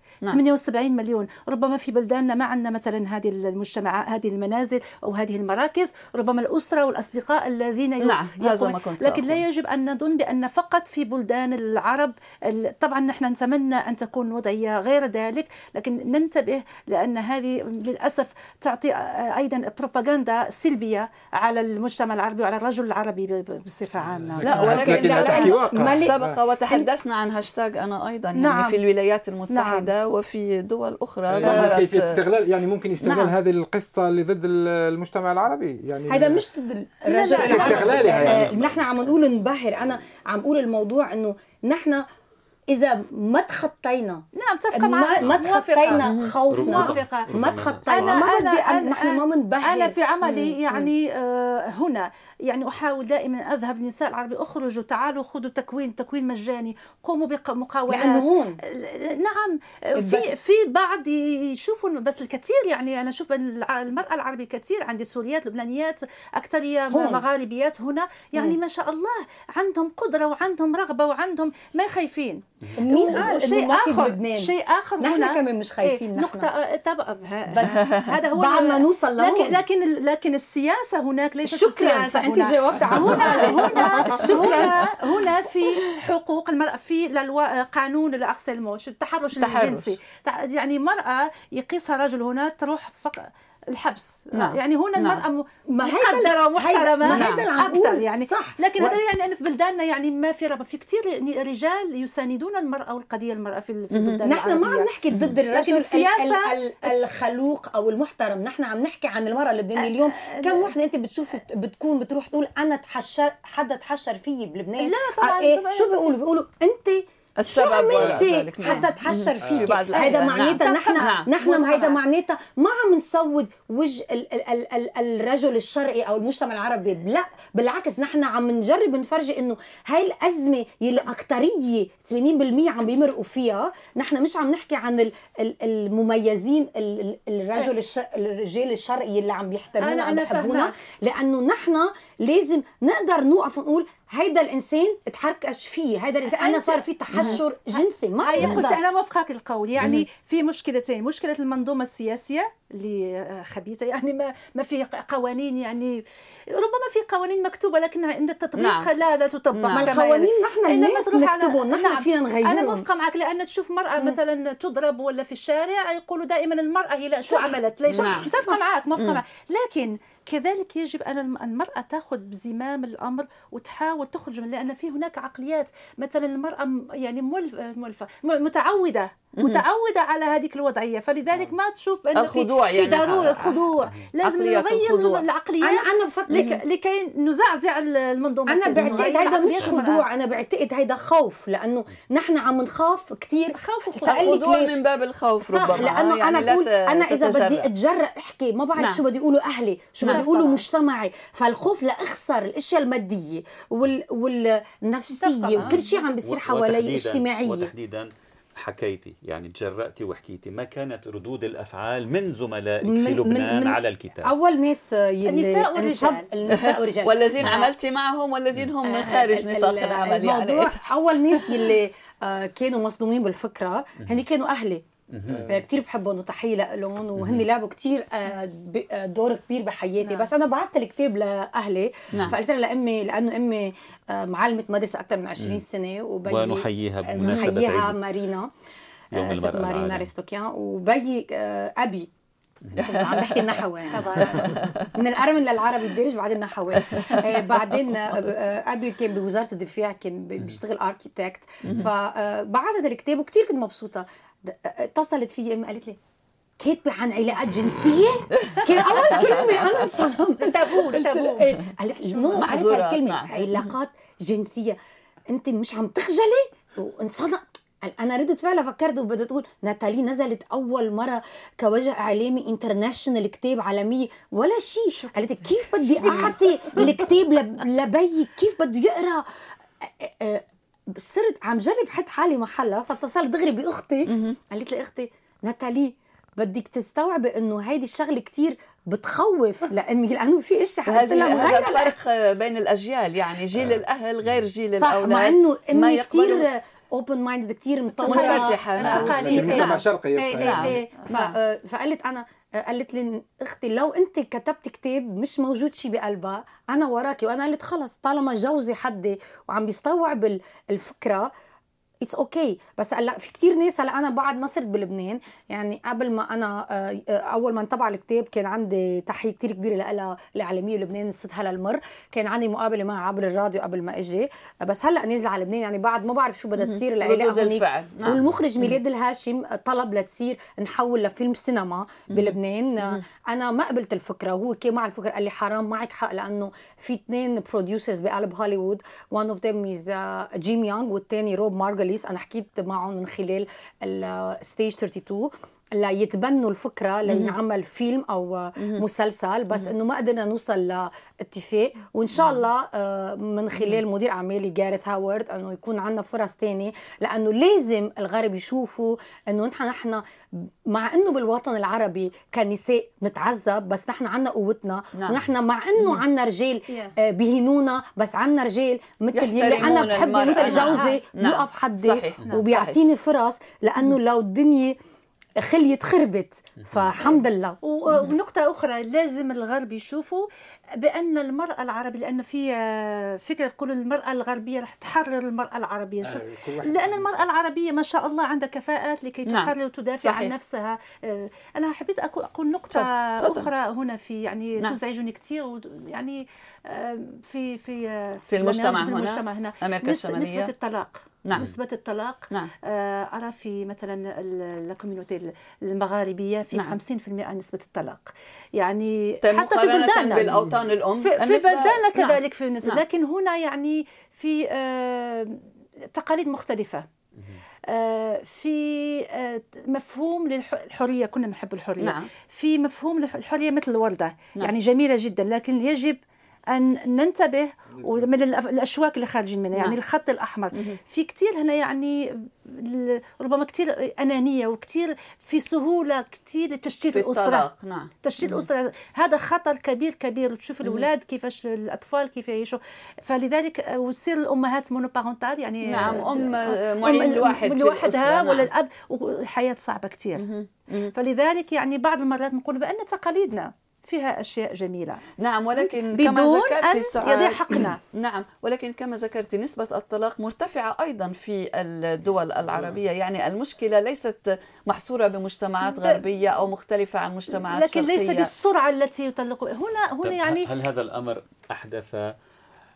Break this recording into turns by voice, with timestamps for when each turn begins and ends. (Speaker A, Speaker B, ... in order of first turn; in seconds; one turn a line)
Speaker A: 0.3-26.1
Speaker B: 8.0-9.4
Speaker C: 24.0-26.4
Speaker B: 24.4-32.1
Speaker D: 24.7-25.9
Speaker A: 28.4-28.8
Speaker A: 29.5-29.9
Speaker C: 31.3-36.5
Speaker D: 33.0-33.3
Speaker D: 36.1-42.0
Speaker A: 37.1-38.0
Speaker C: 37.3-38.5
Speaker E: 37.7-39.0
Speaker D: 42.7-50.0
Speaker A: 44.4-104.9
Speaker E: 45.2-48.2
Speaker B: 46.1-46.3
Speaker B: 50.2-50.8
Speaker D: 57.9-58.6
Speaker D: 60.0-60.4
Speaker D: 66.9-67.3
Speaker D: 72.8-76.5
Speaker D: 77.5-79.6
Speaker D: 81.4-84.9
Speaker B: 83.2-84.5
Speaker B: 89.4-89.9
Speaker B: 94.3-95.2
Speaker D: 95.7-99.0
Speaker B: 97.1-97.5
Speaker B: 103.9-104.2
Speaker D: 104.2-148.8
Speaker A: 105.5-107.1
Speaker A: 109.8-110.7
Speaker A: 114.8-115.9
Speaker B: 117.4-121.3
Speaker C: 119.4-119.7
Speaker A: 119.9-122.0
Speaker A: 139.8-140.7
Speaker A: 146.3-147.4
Speaker A: 148.2-190.1
Speaker B: 149.8-150.1
Speaker B: 158.6-158.9
Speaker B: 159.5-160.0
Speaker D: 159.7-162.9
Speaker D: 167.2-168.6
Speaker B: 167.9-168.3
Speaker B: 179.4-179.7
Speaker B: 182.1-185.2
Speaker D: 185.6-186.5
Speaker B: 186.3-186.6
Speaker D: 188.5-194.8
Speaker A: 193.5-194.3
Speaker B: 194.1-197.7
Speaker D: 195.4-207.7
Speaker A: 200.1-200.6
Speaker A: 205.1-206.0
Speaker E: 206.2-214.3
Speaker D: 212.8-217.7
Speaker A: 215.2-216.3
Speaker B: 216.5-220.8
Speaker D: 218.8-224.8
Speaker E: 225.1-225.4
Speaker C: 225.3-225.6
Speaker D: 225.4-238.5
Speaker E: 227.2-227.5
Speaker E: 236.3-238.0
Speaker E: 239.1-240.1
Speaker D: 239.1-242.1
Speaker D: 242.7-256.0
Speaker B: 242.8-243.6
Speaker A: 243.9-244.7
Speaker B: 244.3-244.9
Speaker B: 246.9-247.4
Speaker D: 256.6-264.8
Speaker B: 258.4-259.6
Speaker A: 260.4-262.5
Speaker B: 262.4-263.7
Speaker D: 265.3-279.2
Speaker A: 275.0-277.0
Speaker D: 279.8-292.0
Speaker B: 284.1-284.4
Speaker B: 290.9-296.5
Speaker D: 294.8-311.3
Speaker B: 298.0-299.7
Speaker A: 298.0-299.9
Speaker C: 298.8-300.8
Speaker B: 300.4-301.4
Speaker D: 312.0-374.8
Speaker B: 326.7-328.2
Speaker B: 332.1-333.0
Speaker B: 347.1-347.4
Speaker B: 348.6-348.8
Speaker B: 364.9-365.2
Speaker B: 369.1-372.8
Speaker A: 369.7-371.0
Speaker D: 375.4-377.6
Speaker A: 377.6-415.4
Speaker C: 386.0-387.3
Speaker B: 389.3-390.3
Speaker B: 392.7-393.5
Speaker B: 398.3-400.5
Speaker B: 401.2-401.5
Speaker B: 409.2-412.8
Speaker A: 415.9-416.9
Speaker A: 417.7-437.5
Speaker B: 421.8-422.1
Speaker C: 427.7-428.1
Speaker B: 430.5-430.8
Speaker B: 436.9-438.4
Speaker A: 438.0-450.3
Speaker B: 445.7-448.5
Speaker B: 450.2-450.9
Speaker A: 450.9-455.0
Speaker B: 455.2-468.3
Speaker A: 455.6-457.8
Speaker A: 465.6-466.0
Speaker A: 467.4-470.5
Speaker E: 470.0-472.1